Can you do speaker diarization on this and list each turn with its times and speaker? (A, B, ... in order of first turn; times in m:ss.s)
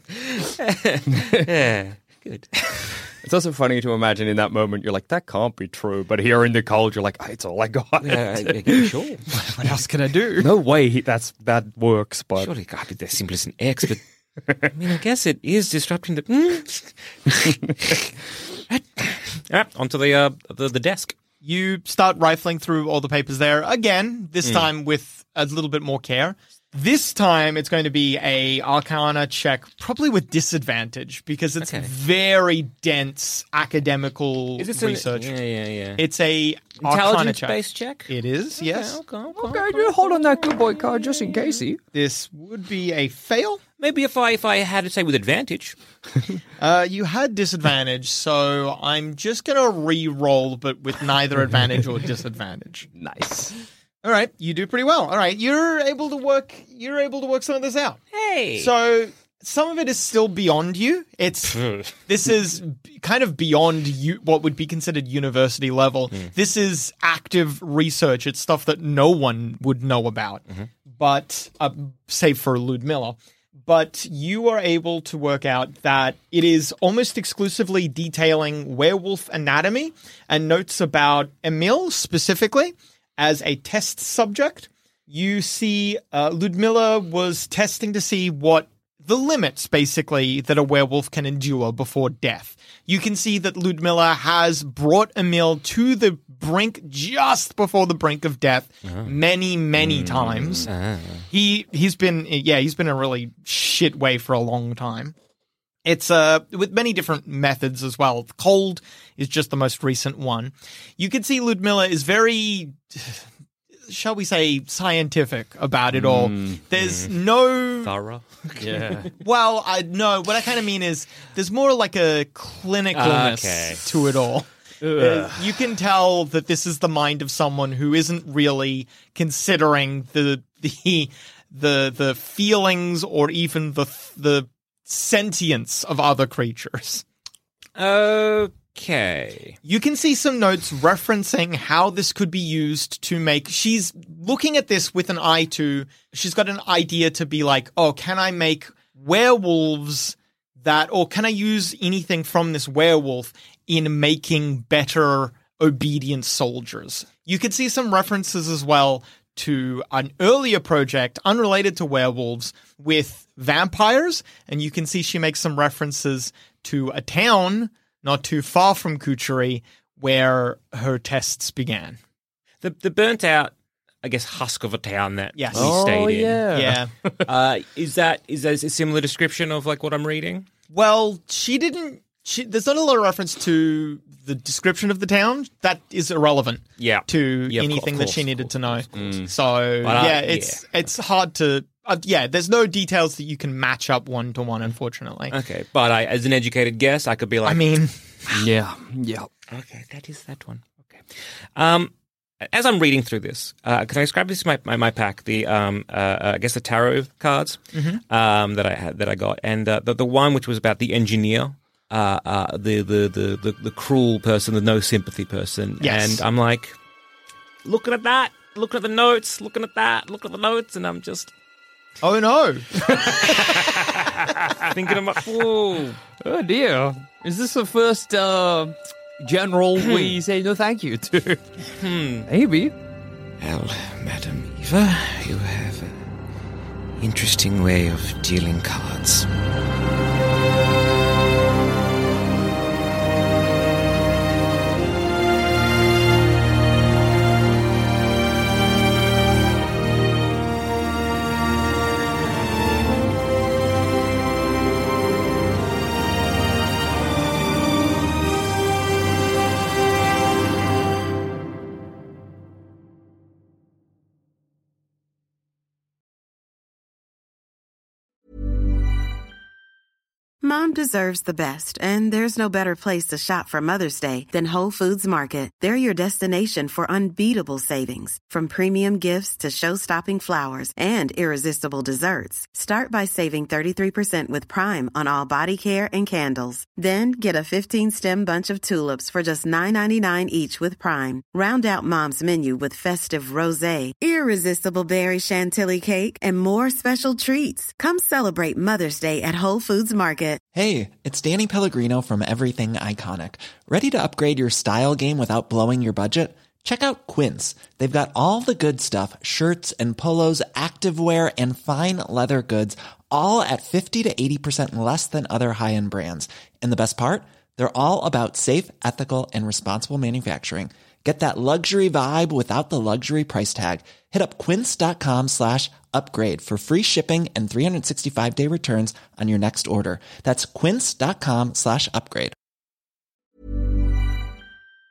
0:00.2-0:03.0 A
0:03.1-0:08.9 B
0:08.0-0:09.3 A
0:09.4-0:10.5 C
0:10.4-0:12.5 B
0:12.4-0:14.0 A
0:14.6-0:18.1 A
0:18.7-0:21.1 A
0:21.4-0:35.3 C
0:31.6-0:31.9 A
0:34.6-0:36.0 A
0:36.0-0:39.0 C
0:36.8-0:40.2 A
0:39.4-0:41.8 B
0:41.9-0:43.6 C
0:43.8-0:45.8 A
0:46.6-0:52.9 C
0:53.0-0:53.5 B
0:54.0-0:58.0 C
0:58.1-0:58.7 A
0:58.6-1:10.4 C
1:01.6-1:01.9 A
1:11.0-1:40.7 C
1:39.9-1:40.6 B
1:40.3-1:41.2 A
1:41.3-1:45.1 C
1:45.8-1:53.2 C
1:53.9-1:57.9 C
1:56.0-1:56.6 B
1:56.7-1:57.1 A
1:57.8-1:58.9 A
1:58.6-1:59.1 B
1:59.2-2:17.0 C
2:02.9-2:03.8 A
2:04.8-2:05.4 B
2:17.8-2:19.6 A
2:19.6-2:52.0 C
2:52.6-2:56.5 A
2:55.4-2:55.8 C
2:55.5-2:57.2 B
2:56.5-2:56.9 C
2:57.2-3:00.4 A
3:00.7-3:15.3 C
3:06.8-3:08.8 A
3:09.0-3:09.3 B
3:09.8-3:10.6 A
3:15.3-3:17.8 A
3:17.4-3:18.4 C
3:18.3-3:19.3 B
3:19.5-3:21.0 A
3:21.6-3:36.7 A
3:27.7-3:28.0 C
3:35.8-3:36.2 C
3:37.6-3:41.3 A
3:42.0-3:43.8 C
3:43.4-3:46.0 A
3:46.2-3:51.4 B
3:49.8-3:50.2 A
3:51.8-3:52.3 A
3:52.3-3:52.7 B
3:53.4-3:56.0 A
3:57.0-3:59.3 A
4:30.4-5:00.4 D
5:00.5-5:32.3 E